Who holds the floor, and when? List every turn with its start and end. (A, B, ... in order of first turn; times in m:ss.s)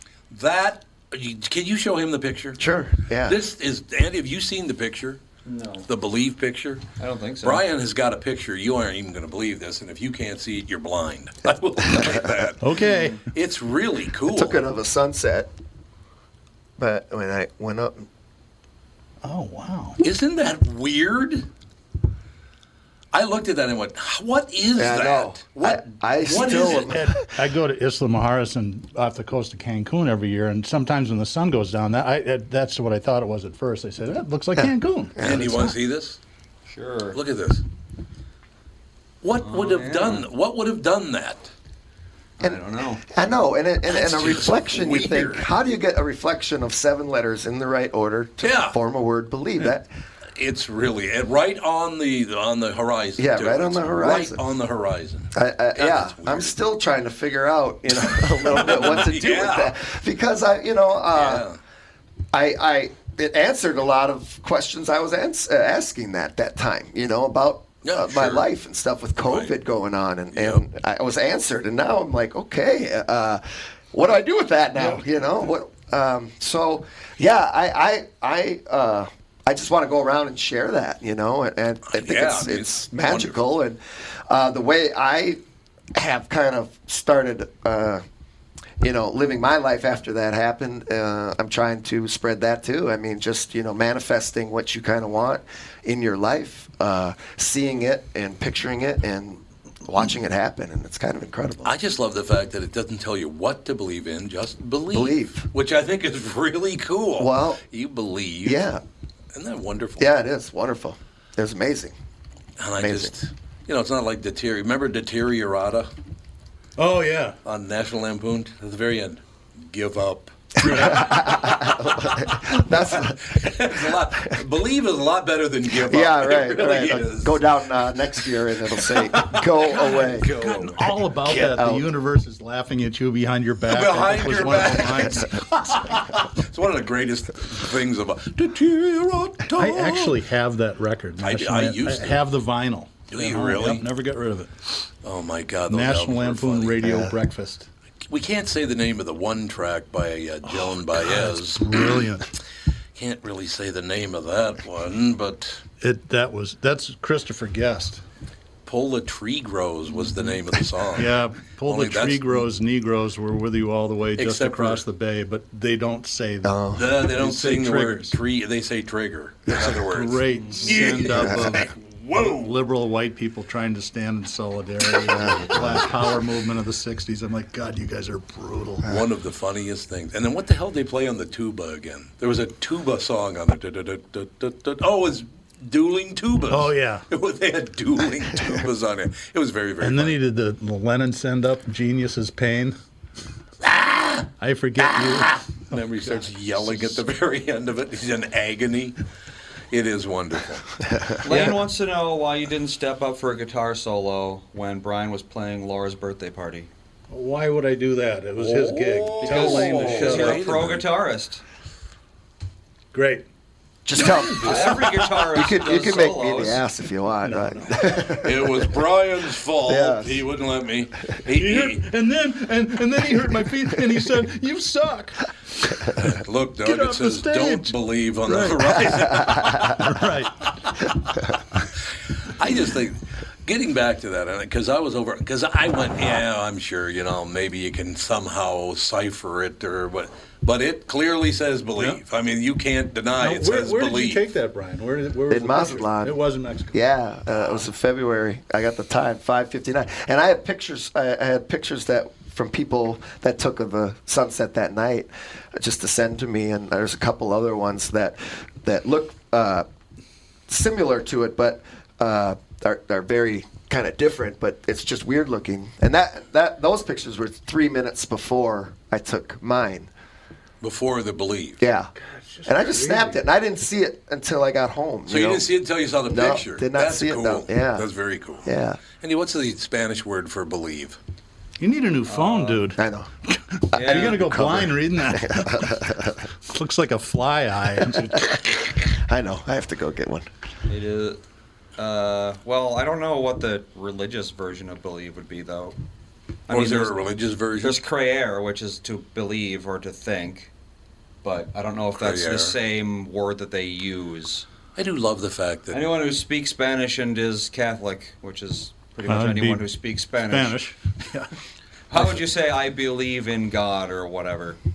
0:00.3-0:02.6 A
0:02.6-0:03.4 B
0:03.2-0:05.2 A
0:05.4-0:05.9 C
0:05.9-0:06.9 A
0:07.0-0:07.6 C
0:07.4-0:12.7 A
0:12.6-0:13.2 D
0:12.8-0:13.2 C
0:13.3-0:14.6 A
0:14.3-0:15.5 B
0:16.8-0:18.1 B
0:19.2-0:20.0 D
0:20.0-0:21.5 A
0:23.1-0:26.9 A
0:24.8-0:27.2 B
0:26.4-0:35.8 D
0:35.2-0:36.2 A
0:36.7-0:37.2 C
0:37.1-0:37.6 A
0:39.2-0:41.5 A
0:39.4-0:40.3 C
0:42.4-0:43.0 C
0:42.4-0:49.9 B
0:43.9-0:45.4 A
0:48.4-0:48.8 A
0:50.4-0:56.6 A
0:53.2-0:54.4 B
0:55.4-1:01.4 B
0:58.0-0:59.8 A
1:01.1-1:01.6 A
1:02.3-1:25.4 B
1:07.8-1:08.4 A
1:09.2-1:09.5 A
1:10.3-1:10.6 A
1:21.9-1:23.4 A
1:26.0-1:28.0 B
1:28.8-1:41.7 B
1:41.6-1:48.7 A
1:44.9-1:45.5 B
1:47.2-1:47.6 B
1:48.4-1:48.8 B
1:49.3-1:50.1 A
1:50.0-1:51.9 B
1:52.6-1:55.9 A
1:52.8-1:53.1 B
1:56.8-1:57.4 D
1:57.4-2:10.9 A
2:00.6-2:04.4 B
2:05.8-2:10.3 B
2:10.2-2:16.0 D
2:11.3-2:11.9 B
2:13.7-2:20.1 A
2:19.6-2:24.6 D
2:21.2-2:22.2 A
2:23.1-2:23.8 A
2:25.0-2:26.8 A
2:25.7-2:27.7 D
2:26.8-2:27.1 B
2:28.1-2:31.9 A
2:30.4-2:32.3 D
2:33.0-2:35.6 A
2:35.8-2:38.0 D
2:38.6-2:42.4 A
2:41.0-2:48.2 D
2:44.2-2:44.8 A
2:46.4-2:46.9 B
2:46.7-2:52.6 A
2:49.7-2:58.8 D
2:50.4-2:50.9 C
2:51.1-2:51.5 B
2:55.2-2:55.6 B
2:58.8-3:10.2 A
3:06.5-3:07.0 D
3:09.8-3:12.8 D
3:13.6-3:19.0 A
3:14.4-3:17.0 D
3:19.7-3:20.7 A
3:21.2-3:26.7 C
3:21.3-3:21.6 D
3:27.1-3:30.4 D
3:28.4-3:31.4 C
3:28.6-3:30.9 A
3:32.9-3:33.3 D
3:33.9-3:38.7 B
3:34.0-3:34.8 A
3:34.0-3:34.6 D
3:34.4-3:36.6 C
3:37.2-3:38.2 D
3:38.2-3:41.8 A
3:39.6-3:40.2 B
3:41.3-3:45.3 D
3:46.0-3:49.9 A
3:46.6-3:47.8 D
3:48.3-3:48.7 D
3:49.6-3:50.4 D
3:50.6-3:51.0 A
3:52.3-4:04.2 A
4:03.2-4:06.8 D
4:05.3-4:06.2 B
4:06.7-4:19.7 B
4:20.5-4:29.9 B
4:30.6-4:31.6 A
4:31.6-4:31.9 B
4:32.0-4:33.2 D
4:32.5-4:35.4 B
4:35.1-4:41.0 A
4:36.1-4:37.9 B
4:38.4-4:38.8 B
4:41.6-4:45.7 D
4:42.1-4:42.7 C
4:42.8-4:43.1 B
4:43.7-4:46.2 B
4:43.8-4:44.4 C
4:46.4-4:48.4 D
4:49.1-4:50.3 B
4:50.7-4:51.2 C
4:51.8-4:55.8 C
4:56.5-4:57.0 C
4:56.5-4:57.8 A
4:57.6-5:00.5 C
5:01.2-5:04.5 C
5:02.0-5:02.6 A
5:04.8-5:05.9 A
5:05.7-5:10.6 C
5:09.1-5:09.7 D
5:10.3-5:11.3 D
5:11.9-5:14.6 C